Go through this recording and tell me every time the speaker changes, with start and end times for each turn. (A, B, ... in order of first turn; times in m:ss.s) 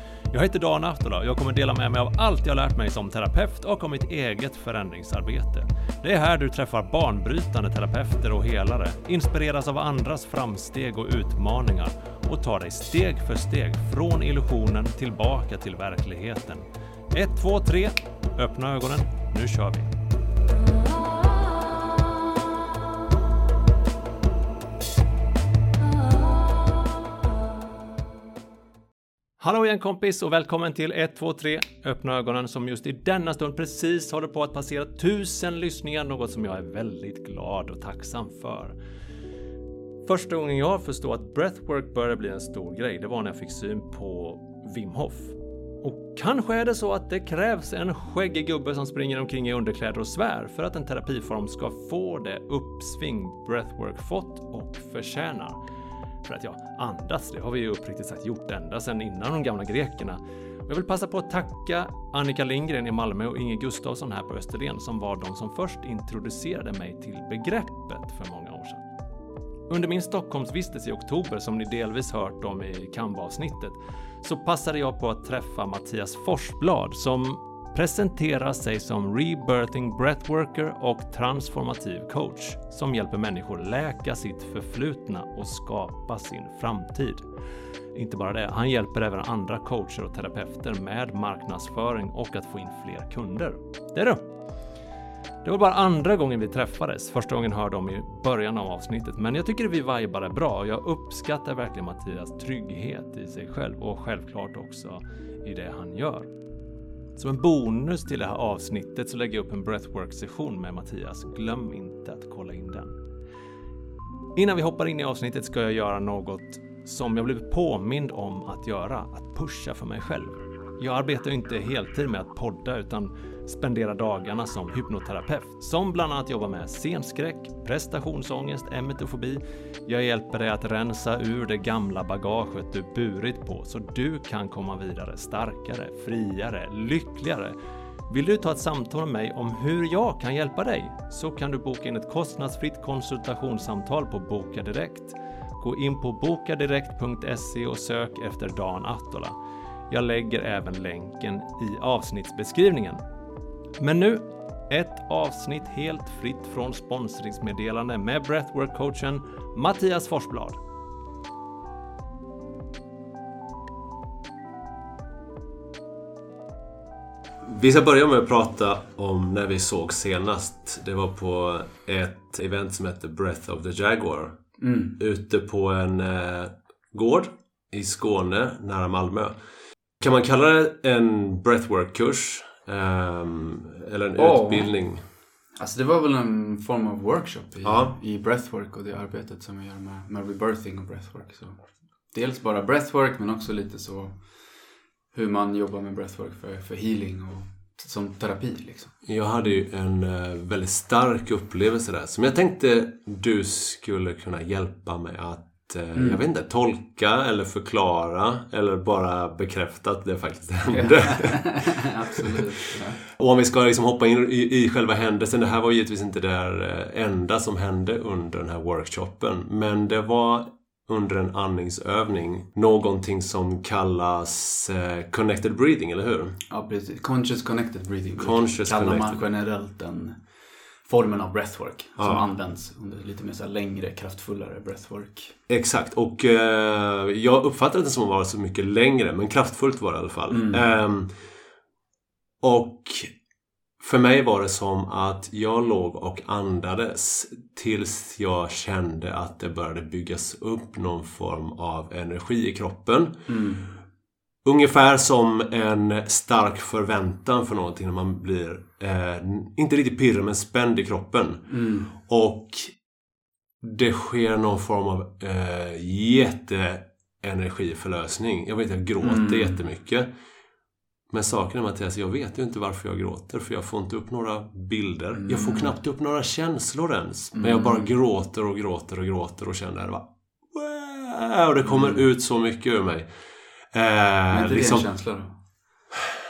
0:00.3-0:19.9 A
0:29.4-0:38.8 A
0:40.0-0:55.6 A
0:56.2-1:08.8 A
1:09.7-1:27.2 A
1:27.9-1:34.3 A
1:35.4-1:46.3 A
1:47.2-1:53.0 A
1:54.4-2:17.6 A
2:18.1-2:29.4 A
2:29.9-2:33.0 A
2:33.8-2:40.6 A
2:47.4-2:54.4 B
2:54.6-2:55.0 C
2:55.0-2:59.4 B
3:00.0-3:05.0 B
3:04.2-3:04.7 C
3:05.6-3:14.1 C
3:07.6-3:07.9 B
3:15.1-3:19.0 C
3:19.0-3:32.5 B
3:26.0-3:26.2 C
3:30.7-3:33.0 C
3:33.0-3:46.4 B
3:46.5-3:50.2 C
3:48.2-3:49.2 B
3:50.9-3:55.4 C
3:52.0-3:52.2 B
3:55.5-4:01.1 B
4:00.3-4:00.6 C
4:02.4-4:03.1 B
4:03.8-4:13.2 B
4:13.3-4:13.7 C
4:14.4-4:22.8 B
4:21.5-4:21.9 C
4:23.6-4:30.1 B
4:29.0-4:29.6 C
4:31.1-4:43.1 B
4:35.1-4:35.8 C
4:37.3-4:37.9 C
4:41.7-4:42.0 C
4:43.7-4:44.9 B
4:44.3-4:45.4 C